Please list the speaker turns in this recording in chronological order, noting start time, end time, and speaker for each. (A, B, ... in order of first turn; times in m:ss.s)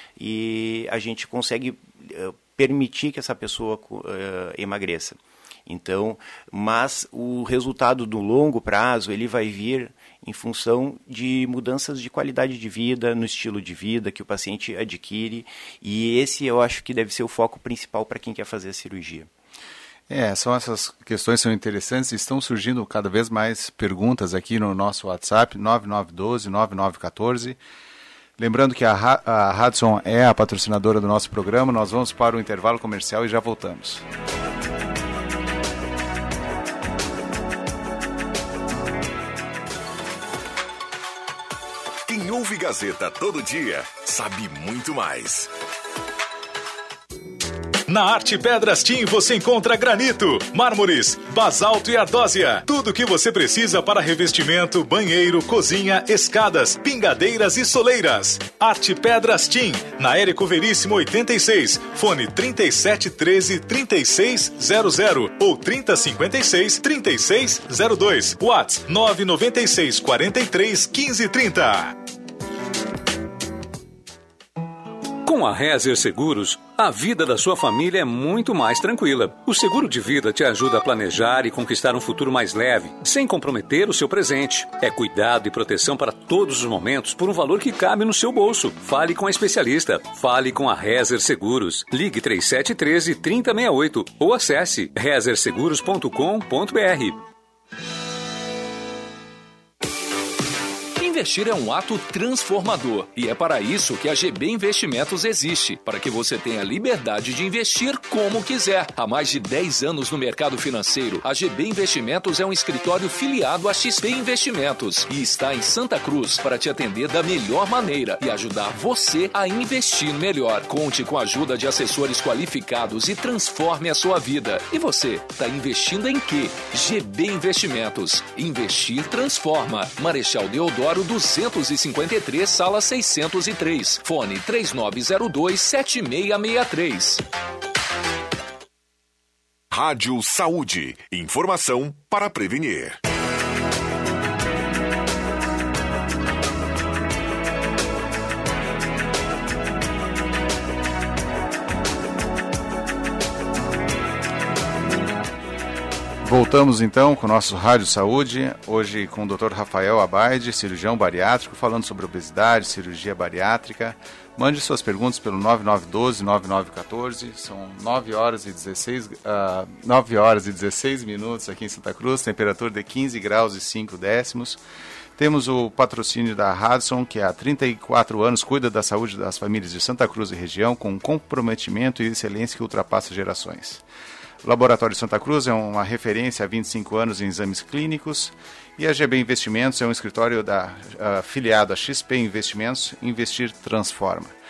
0:00.2-0:05.2 A
0:05.7-0:19.3 A
0:20.1-0:27.6 B
0:28.4-0:34.0 B
0:42.0-0:45.5 C
0:47.9-1:12.0 D
1:15.2-1:37.2 E
1:41.0-2:17.2 F
2:19.7-2:23.0 C
2:36.2-2:54.6 B
2:55.2-3:03.8 B
3:04.4-3:14.3 B